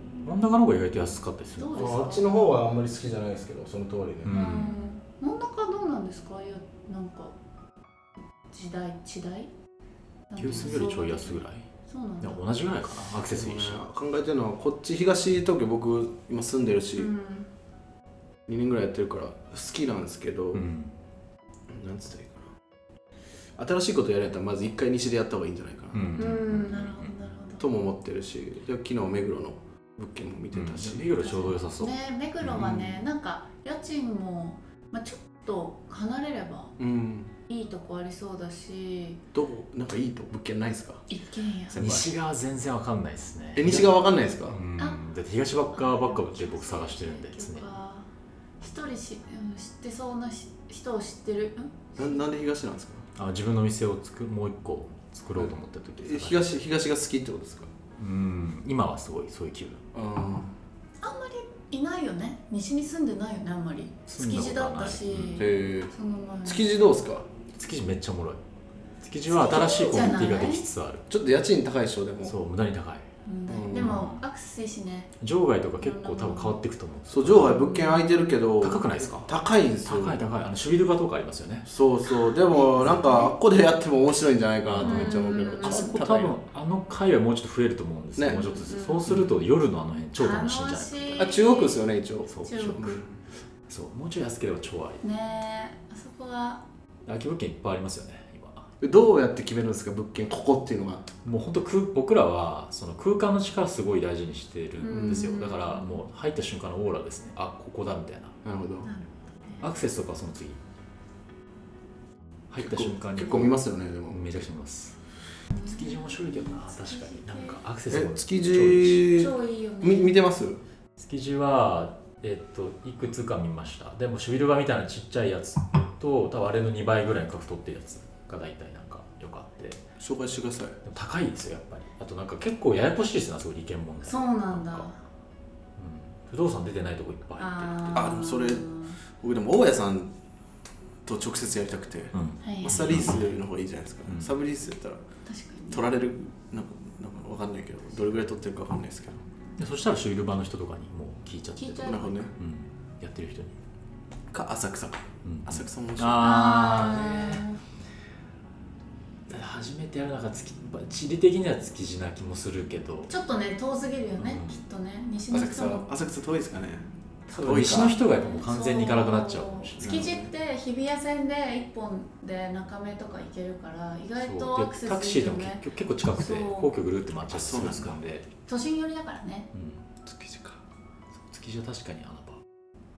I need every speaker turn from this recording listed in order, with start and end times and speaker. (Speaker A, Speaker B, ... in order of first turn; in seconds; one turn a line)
Speaker A: 0.2-2.1
Speaker B: 1.5-2.5
Speaker C: 1.7-4.5
Speaker A: 4.2-4.8
Speaker B: 4.3-7.3
Speaker B: 8.5-9.5
Speaker B: 10.3-12.4
Speaker A: 10.4-11.7
Speaker A: 12.2-13.8
Speaker C: 13.2-17.1
Speaker B: 16.9-17.5
Speaker C: 18.4-20.6
Speaker A: 20.5-20.9
Speaker C: 21.7-22.5
Speaker C: 23.6-26.5
Speaker A: 25.9-27.1
Speaker B: 26.1-27.6
Speaker C: 27.6-31.3
Speaker A: 30.5-32.7
Speaker B: 31.2-36.8
Speaker C: 32.5-33.0
Speaker C: 36.8-37.3
Speaker B: 37.5-39.2
Speaker C: 39.3-41.1
Speaker B: 41.1-41.8
Speaker C: 41.7-42.1
Speaker A: 41.8-47.6
Speaker C: 43.5-44.6
Speaker B: 44.8-45.0
Speaker B: 45.7-48.0
Speaker B: 48.6-52.2
Speaker C: 52.0-53.0
Speaker A: 53.1-56.5
Speaker C: 55.3-57.7
Speaker A: 58.0-59.8
Speaker C: 59.9-60.5
Speaker B: 61.0-66.7
Speaker A: 64.1-65.5
Speaker C: 65.3-65.9
Speaker C: 66.4-67.3
Speaker A: 67.5-68.4
Speaker A: 69.0-71.1
Speaker B: 69.3-70.6
Speaker C: 71.1-72.3
Speaker A: 72.2-73.1
Speaker B: 73.2-75.1
Speaker C: 73.5-74.0
Speaker A: 73.7-74.2
Speaker A: 75.2-77.6
Speaker B: 75.8-76.6
Speaker C: 77.1-80.2
Speaker B: 77.4-78.1
Speaker A: 78.6-79.3
Speaker A: 79.8-81.7
Speaker C: 81.6-86.3
Speaker B: 82.0-83.3
Speaker A: 84.7-91.3
Speaker B: 84.8-86.0
Speaker C: 88.2-88.4
Speaker B: 88.5-89.2
Speaker B: 90.2-91.8
Speaker C: 91.2-93.1
Speaker A: 92.3-92.9
Speaker B: 92.4-93.0
Speaker A: 93.7-95.0
Speaker B: 95.0-96.6
Speaker A: 97.0-98.7
Speaker C: 98.8-101.1
Speaker A: 101.2-108.3
Speaker B: 104.8-106.0
Speaker C: 104.9-105.4
Speaker C: 108.4-108.9
Speaker B: 108.8-109.7
Speaker A: 109.6-110.6
Speaker A: 112.5-115.0
Speaker C: 112.6-114.2
Speaker B: 115.5-117.6
Speaker A: 115.6-119.1
Speaker C: 117.9-120.6
Speaker B: 119.1-120.2
Speaker A: 121.0-129.8
Speaker C: 130.0-130.8
Speaker A: 130.8-134.9
Speaker B: 134.1-135.0
Speaker A: 135.8-138.0
Speaker B: 137.4-139.0
Speaker C: 137.9-140.1
Speaker C: 141.0-145.0
Speaker A: 142.1-143.4
Speaker B: 142.4-142.8
Speaker A: 144.1-144.3
Speaker B: 145.2-145.8
Speaker C: 145.7-149.2
Speaker A: 149.6-153.5
Speaker B: 151.6-152.3
Speaker C: 151.8-152.3
Speaker C: 154.3-156.3
Speaker A: 155.2-157.5
Speaker B: 156.2-157.6
Speaker A: 159.3-163.1
Speaker B: 163.1-165.9
Speaker A: 164.2-164.6
Speaker C: 165.3-168.0
Speaker A: 167.3-170.1
Speaker B: 167.8-176.7
Speaker C: 169.8-170.3
Speaker A: 174.2-178.3
Speaker C: 177.3-178.0
Speaker B: 178.5-179.5
Speaker A: 179.5-179.8
Speaker C: 180.0-180.6
Speaker A: 181.2-182.4